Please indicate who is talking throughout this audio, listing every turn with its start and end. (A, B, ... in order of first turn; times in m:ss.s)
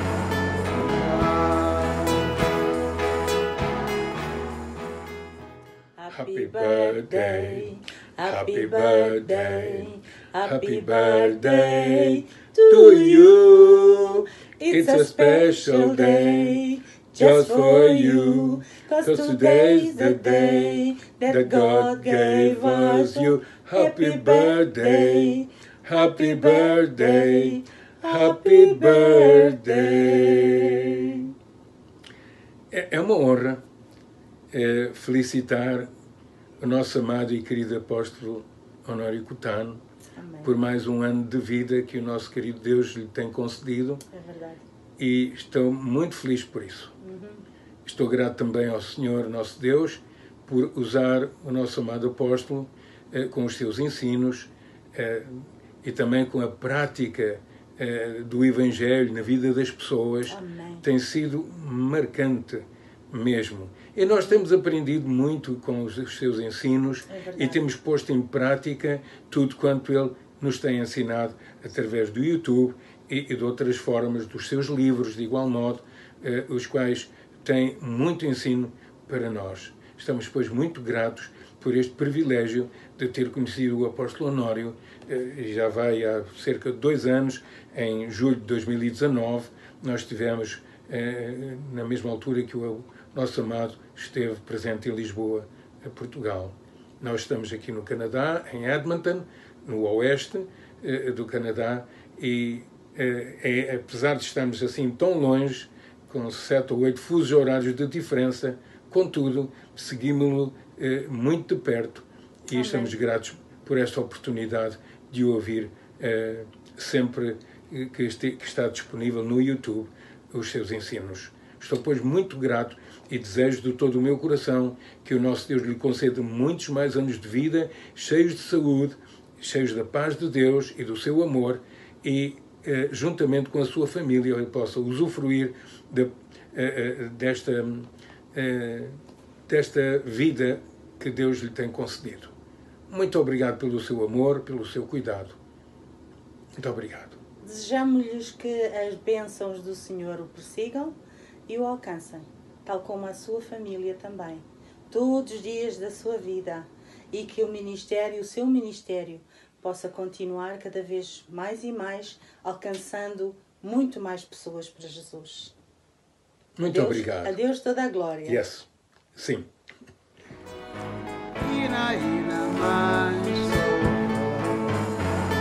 0:00.9-0:02.1 A
0:06.0-0:31.3 B
0:06.1-0:16.6 C
0:17.1-0:31.2 C
0:32.7-0:33.6 C
0:34.5-0:35.9 C
0:36.6-0:39.8 C
0:40.1-0:40.6 B
0:40.4-0:44.0 C
0:44.1-0:44.6 B
0:45.0-0:46.9 C
0:47.0-0:47.4 B
0:47.8-2:18.9 C
1:00.3-1:00.8 B
1:07.1-1:07.6 B
1:52.5-1:53.0 B
2:19.5-2:22.3 C
2:22.9-2:25.4 C
2:26.6-2:27.2 C
2:27.4-2:45.5 B
2:46.6-2:47.4 C
2:46.6-2:48.4 B
2:48.2-2:49.5 C
2:51.4-2:54.2 A